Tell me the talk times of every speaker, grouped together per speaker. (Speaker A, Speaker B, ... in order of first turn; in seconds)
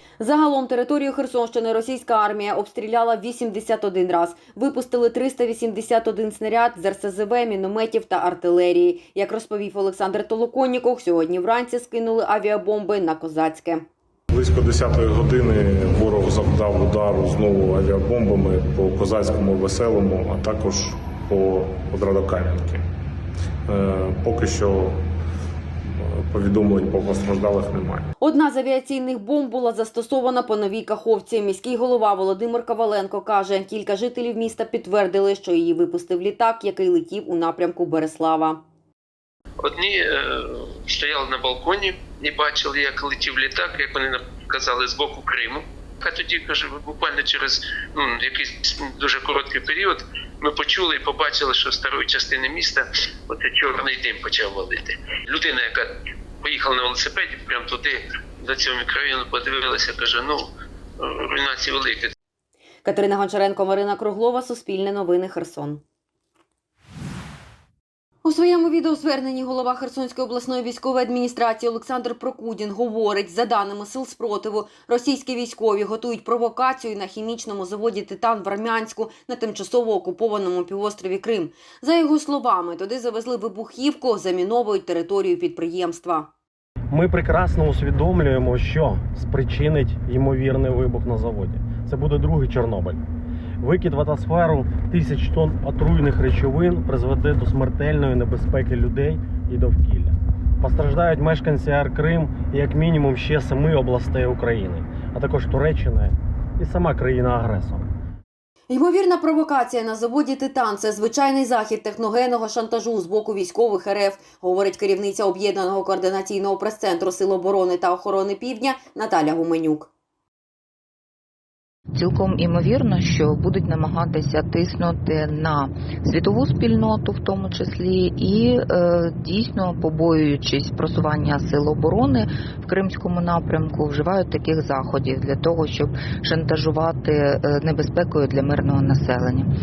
Speaker A: 0.2-13.9, 28.2-38.6, 62.8-65.8, 68.2-86.3, 108.7-119.9
Speaker B: 14.3-22.8, 23.7-25.0, 25.9-28.1
Speaker C: 39.6-40.0, 40.9-55.8, 56.4-60.5, 61.3-62.1
Speaker D: 86.9-93.0, 93.6-107.9
Speaker E: 122.0-139.5